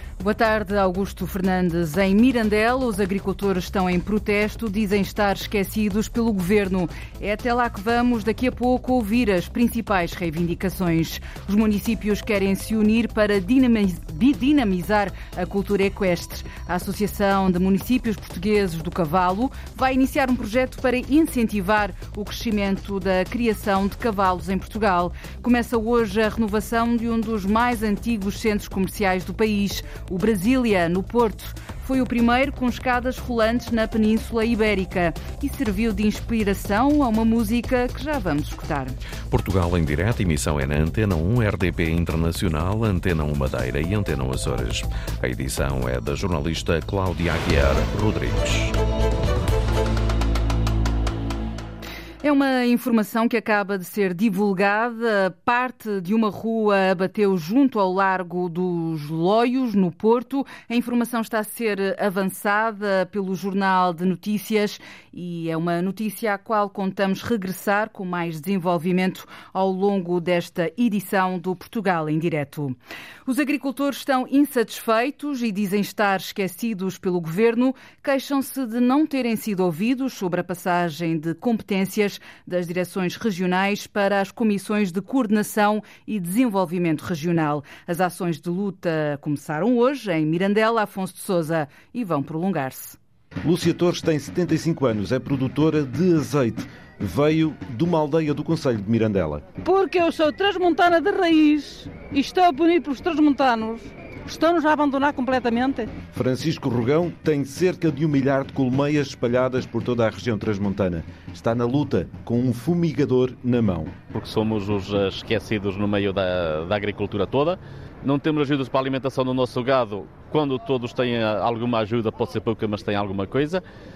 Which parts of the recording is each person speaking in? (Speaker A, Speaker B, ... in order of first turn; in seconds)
Speaker A: 0.2-39.0, 52.2-93.0
Speaker B: 39.3-48.8
Speaker C: 93.4-99.5, 106.1-114.0
Speaker D: 99.6-105.9
Speaker E: 114.1-123.6